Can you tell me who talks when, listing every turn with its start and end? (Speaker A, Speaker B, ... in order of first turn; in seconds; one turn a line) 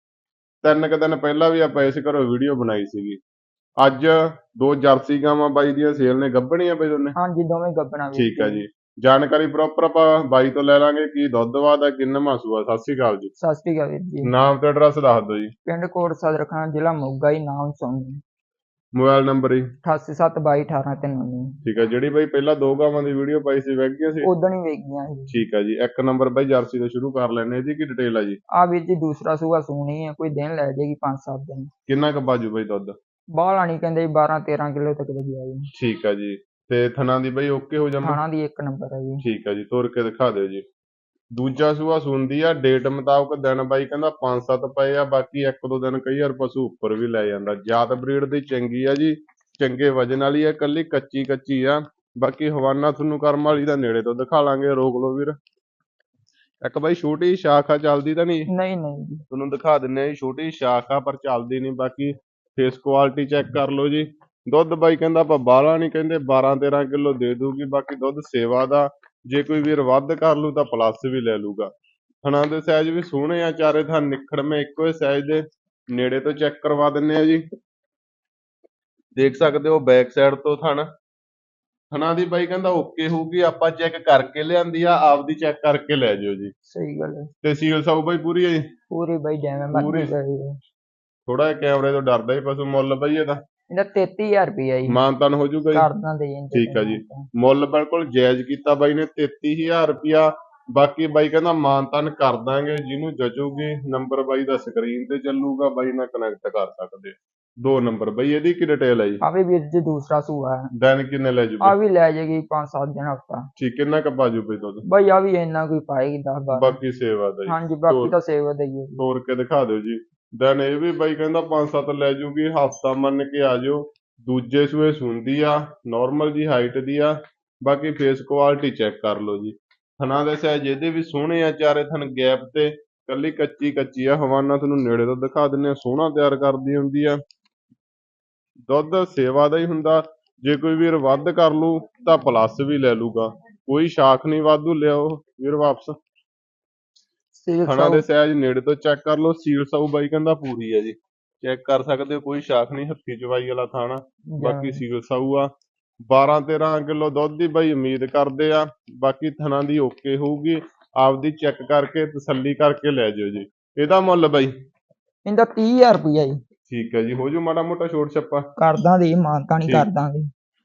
Speaker A: 0.6-3.2
Speaker A: 3.8-7.2
Speaker B: 7.2-8.6
Speaker A: 8.2-13.3
Speaker B: 13.4-14.3
Speaker A: 14.2-15.5
Speaker B: 15.7-18.2
Speaker A: 18.9-19.7
Speaker B: 19.8-21.6
Speaker A: 21.6-24.3
Speaker B: 24.2-25.4
Speaker A: 25.3-28.4
Speaker B: 28.5-31.7
Speaker A: 31.9-33.0
Speaker B: 33.4-35.7
Speaker A: 35.7-38.2
Speaker B: 38.0-39.2
Speaker A: 39.2-40.6
Speaker A: 41.3-55.4
Speaker A: 56.6-58.5
Speaker B: 58.5-59.2
Speaker A: 59.3-71.7
Speaker A: 72.2-77.4
Speaker A: 79.2-80.9
Speaker A: 81.9-86.5
Speaker B: 86.7-87.3
Speaker A: 87.4-88.7
Speaker B: 88.9-90.6
Speaker A: 89.7-90.1
Speaker A: 91.3-93.4
Speaker B: 93.7-95.0
Speaker A: 94.9-95.9
Speaker B: 95.7-97.3
Speaker A: 96.5-109.2
Speaker B: 109.2-110.7
Speaker A: 110.8-111.8
Speaker B: 111.6-113.5
Speaker A: 113.6-114.8
Speaker B: 114.8-116.8
Speaker A: 116.5-118.1
Speaker B: 117.5-119.0
Speaker A: 119.0-137.2
Speaker A: 138.7-145.9
Speaker B: 147.4-148.1
Speaker A: 147.7-155.5
Speaker B: 154.3-154.8
Speaker A: 156.1-164.5
Speaker B: 165.2-166.4
Speaker A: 166.7-168.4
Speaker B: 168.6-170.3